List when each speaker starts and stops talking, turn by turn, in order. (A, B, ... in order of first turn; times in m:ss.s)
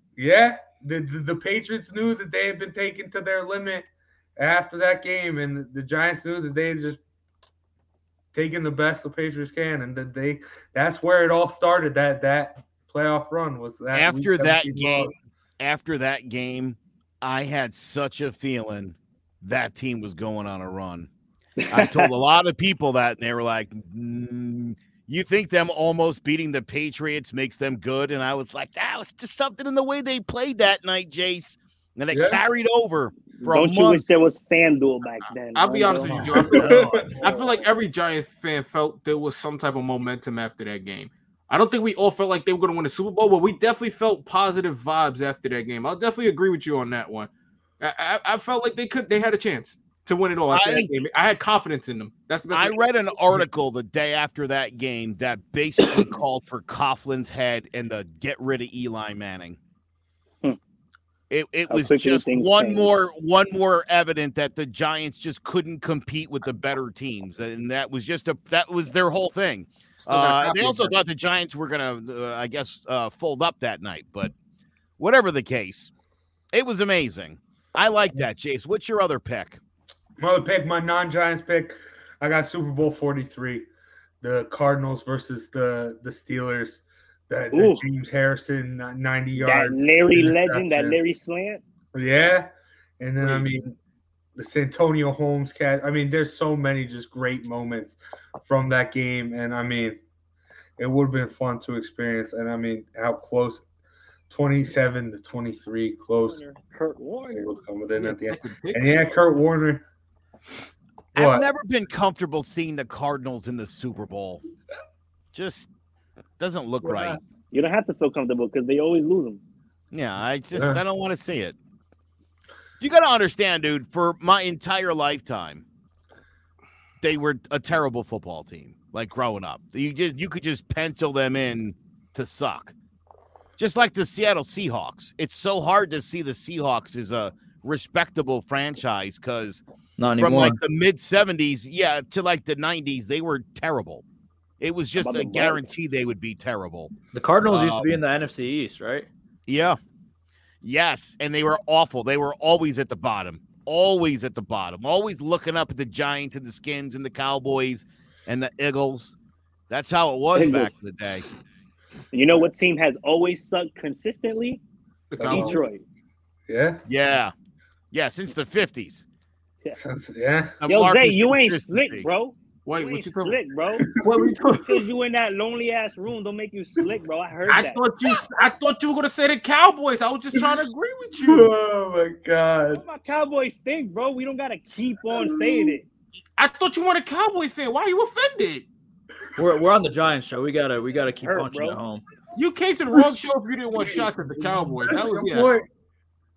0:00.2-0:03.9 A
0:04.4-0:07.0 A
0:08.3-0:15.2 A
0:13.9-0:21.1 B
0:21.6-0:22.1 C
0:21.7-0:34.1 B
0:32.1-0:32.4 A
0:33.4-0:37.7 C
0:35.5-0:53.4 D
0:36.0-0:37.2 A
0:50.5-0:50.9 B
0:52.5-0:59.6 B
1:01.3-1:14.3 B
1:01.7-1:02.9 C
1:10.0-1:11.0 D
1:15.0-1:15.9 B
1:16.5-1:19.6 B
1:20.2-1:23.6 A
1:24.2-1:31.0 A
1:27.5-1:27.8 C
1:29.4-1:31.6 C
1:31.9-1:33.8 A
1:33.2-1:33.5 D
1:34.4-1:40.0 A
1:40.8-1:43.6 A
1:44.3-1:46.4 A
1:46.2-1:47.5 C
1:47.3-1:49.8 A
1:48.0-1:49.2 D
1:51.1-1:54.4 B
1:51.2-1:51.5 A
1:55.3-1:55.7 B
1:56.4-1:57.2 B
1:56.8-1:57.2 A
1:57.5-1:59.4 C
1:59.9-2:01.6 B
2:00.5-2:00.8 A
2:02.8-2:05.6 B
2:07.0-2:12.7 B
2:13.6-2:19.6 B
2:20.0-2:20.6 E
2:20.2-2:24.0 B
2:24.6-2:26.9 B
2:25.0-2:25.7 C
2:27.1-2:29.1 E
2:27.5-2:27.9 B
2:29.5-2:29.8 B
2:30.6-2:39.2 B
2:39.7-2:41.2 B
2:40.3-2:40.7 C
2:42.1-2:44.6 C
2:45.1-2:45.6 D
2:45.2-2:45.8 C
2:45.2-2:45.6 A
2:46.5-2:46.8 A
2:46.9-2:47.3 B
2:47.9-2:49.0 B
2:49.8-2:50.6 A
2:50.6-2:52.1 B
2:50.7-2:53.9 C
2:52.6-2:53.4 D
2:53.8-2:54.3 A
2:53.9-2:54.8 D
2:54.6-2:57.8 C
2:57.5-3:01.5 D
3:00.3-3:00.6 A
3:01.2-3:02.8 A
3:02.7-3:05.8 C
3:05.1-3:05.7 A
3:06.4-3:08.6 D
3:09.4-3:12.0 E
3:11.2-3:11.8 C
3:12.3-3:15.5 D
3:12.9-3:13.2 A
3:13.8-3:15.7 A